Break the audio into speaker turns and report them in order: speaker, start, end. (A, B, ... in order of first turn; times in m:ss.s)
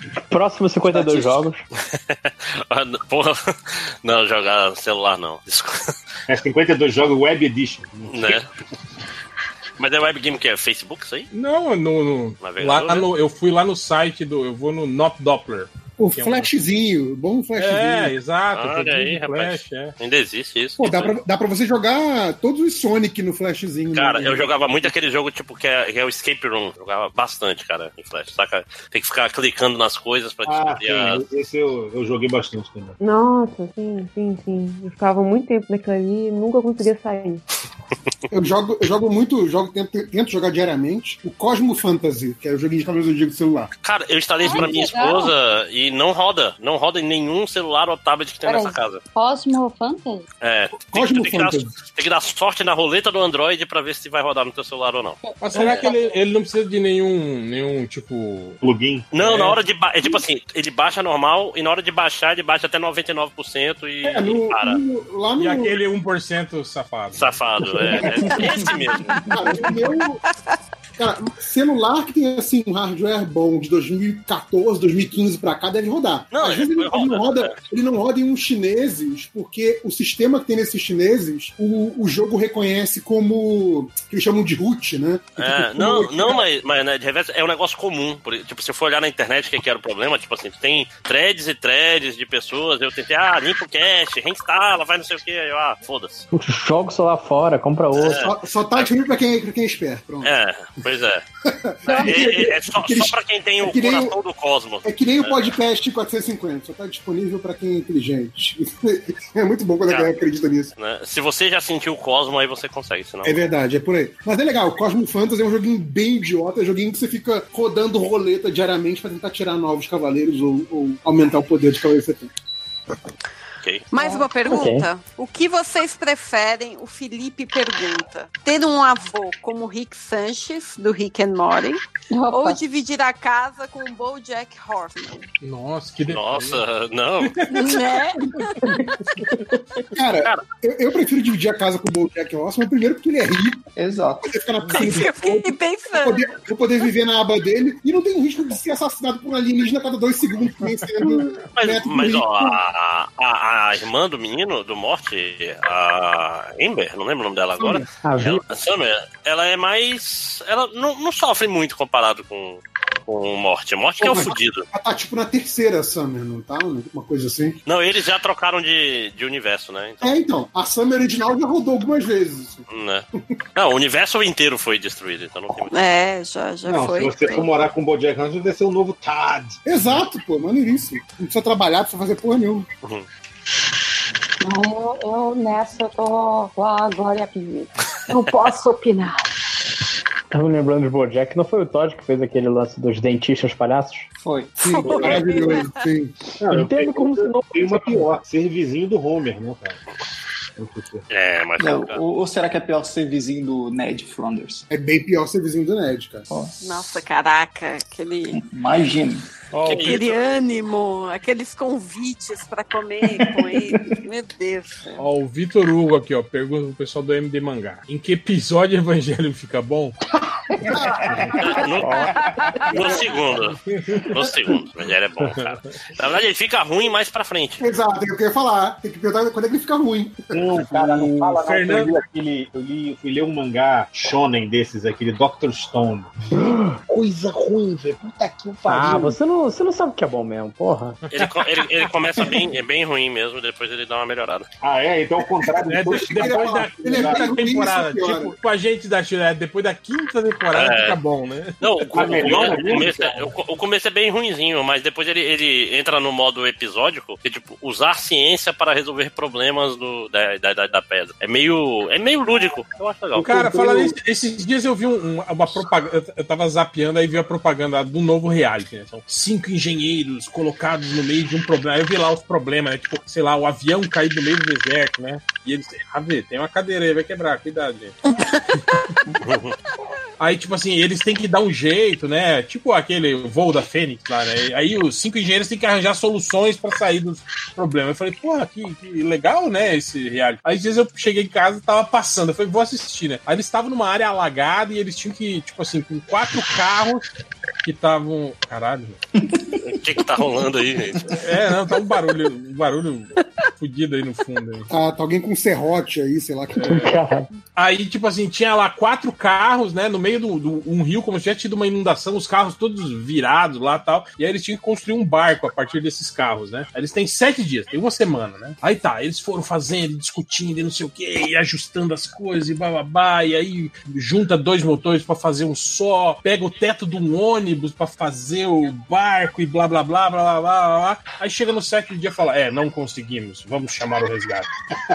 0:00.3-0:01.6 A
0:00.9-0:01.4 B
0:01.8-0:06.0 C
0:06.3-0:08.4 D
0:08.1-0:08.4 C
0:09.8-0:11.3 C
0:11.3-0:16.5 E
0:12.4-0:13.1 C
0:16.0-0:18.1 F
0:17.6-0:20.0 E
0:18.5-0:21.2 C
0:20.8-0:24.6 F
0:23.9-0:31.2 C
0:30.4-0:33.0 D
0:33.0-0:37.4 G
0:38.3-0:43.7 F
0:43.8-0:49.0 C
0:44.4-0:45.3 H
0:48.4-0:50.3 H
0:50.4-0:55.9 C
0:50.8-0:51.7 F
0:55.3-0:56.0 H
0:55.4-0:58.6 E
0:58.6-0:59.1 D
0:59.1-1:04.8 C
0:59.2-0:59.6 E
1:04.0-1:05.8 F
1:05.4-1:07.4 E
1:07.1-1:09.4 C
1:07.9-1:10.2 F
1:11.0-1:26.4 F
1:16.3-1:17.5 C
1:25.4-1:36.2 C
1:36.3-1:38.2 A
1:37.9-1:38.9 C
1:38.2-1:40.3 F
1:40.2-1:41.2 C
1:41.4-1:44.2 F
1:41.9-1:45.6 C
1:44.8-1:50.7 F
1:49.9-1:50.1 C
1:50.8-1:53.4 C
1:53.2-2:02.3 F
2:03.6-2:03.9 C
2:03.9-2:15.2 I
2:04.4-2:04.9 A
2:12.1-2:12.6 H
2:15.4-2:16.6 E
2:16.1-2:17.5 C
2:17.2-2:17.7 E
2:17.5-2:18.5 I
2:19.9-2:23.6 F
2:23.8-2:24.3 B
2:24.2-2:32.6 F
2:24.7-2:26.4 I
2:31.5-2:44.7 C
2:37.6-2:37.8 F
2:38.0-2:38.4 A
2:44.0-2:47.6 F
2:47.6-2:50.0 C
2:50.0-2:52.6 F
2:52.7-2:55.7 C
2:55.7-2:57.5 I
2:56.6-2:59.6 D
2:59.6-3:02.6 F
3:04.4-3:09.3 H
3:10.3-3:14.1 A
3:14.2-3:15.2 B
3:14.6-3:15.8 I
3:14.6-3:16.2 F
3:16.4-3:19.8 D
3:16.5-3:18.2 A
3:20.6-3:21.0 D
3:21.1-3:22.0 C
3:21.6-3:24.6 B
3:24.7-3:26.3 F
3:26.3-3:26.6 B
3:26.6-3:28.4 I
3:28.3-3:29.2 B
3:29.5-3:30.0 E
3:29.6-3:30.2 C
3:29.7-3:34.8 I
3:33.1-3:33.9 B
3:35.0-3:40.0 E
3:41.4-3:42.1 C
3:41.8-3:42.2 A
3:42.7-3:43.6 C
3:43.7-3:44.0 E
3:44.1-3:47.6 C
3:45.2-3:45.6 E
3:47.6-3:50.4 F
3:50.3-3:56.2 D
3:50.6-3:52.0 E
3:56.3-3:56.8 A
3:56.8-3:59.2 D
3:58.7-4:01.0 A
4:01.1-4:04.5 C
4:01.1-4:01.9 E
4:04.6-4:07.4 D
4:05.6-4:13.0 E
4:05.9-4:08.4 F
4:10.5-4:11.0 C
4:11.6-4:23.4 C
4:11.9-4:13.3 D
4:23.2-4:38.0 E
4:23.2-4:23.9 A
4:39.2-4:39.6 C
4:40.2-4:57.1 E
4:57.6-4:59.0 E
4:59.2-4:59.6 B
4:59.6-5:01.2 C
5:01.2-5:04.7 E
5:04.7-5:06.9 F
5:06.6-5:07.0 E
5:06.7-5:07.3 A
5:07.6-5:34.5 E